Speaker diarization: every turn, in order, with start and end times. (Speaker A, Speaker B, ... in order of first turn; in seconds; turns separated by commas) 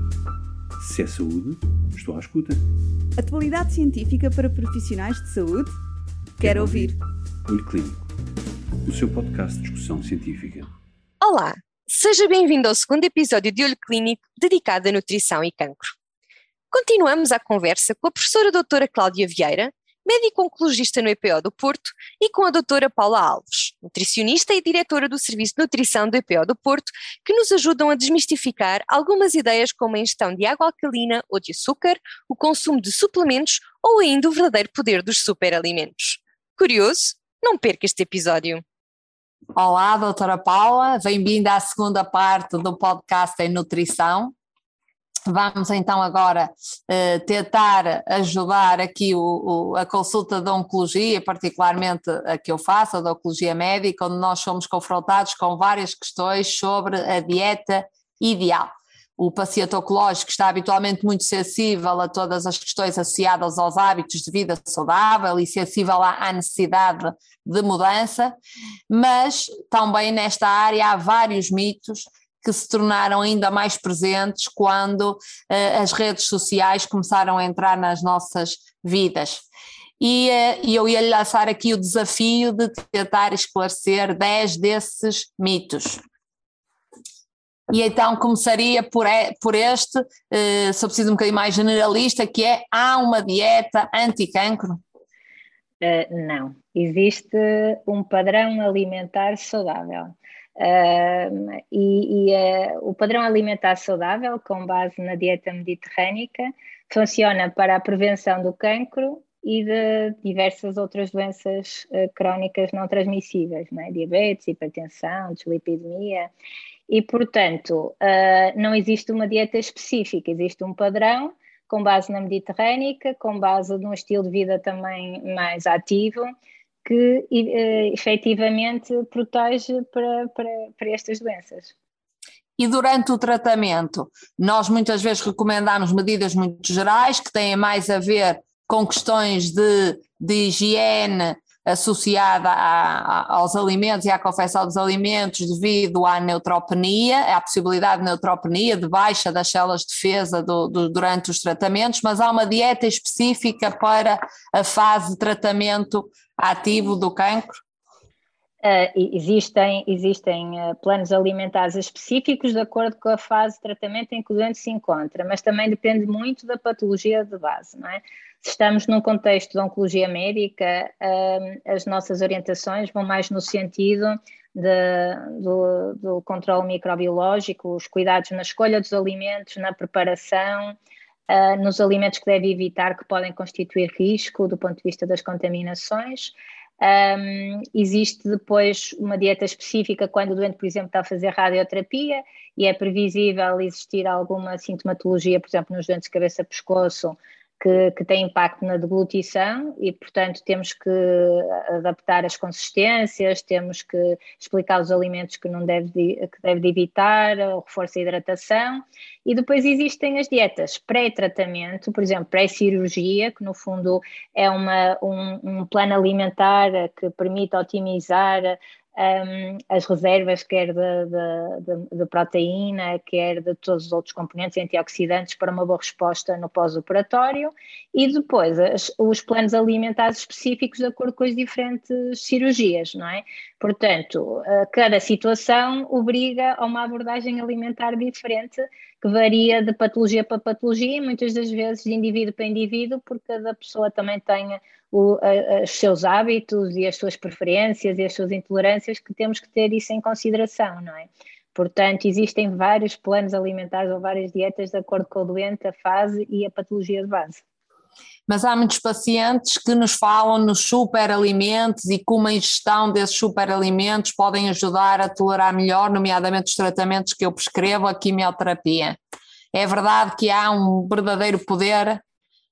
Speaker A: 0.8-2.6, Speaker B: 3.2-5.8, Speaker A: 6.4-6.9, Speaker B: 6.4-7.0, Speaker A: 7.5-8.1, Speaker A: 8.8-10.7, Speaker C: 11.2-15.9, Speaker C: 16.7-38.6, Speaker D: 39.5-44.3, Speaker D: 45.3-68.4, Speaker D: 68.9-79.4, Speaker D: 80.0-86.0, Speaker D: 87.7-94.8, Speaker E: 95.8-116.3, Speaker E: 116.9-126.3, Speaker E: 126.8-131.7, Speaker D: 132.6-157.6, Speaker E: 158.6-180.8, Speaker E: 181.3-257.4, Speaker D: 258.3-269.0, Speaker D: 269.5-272.0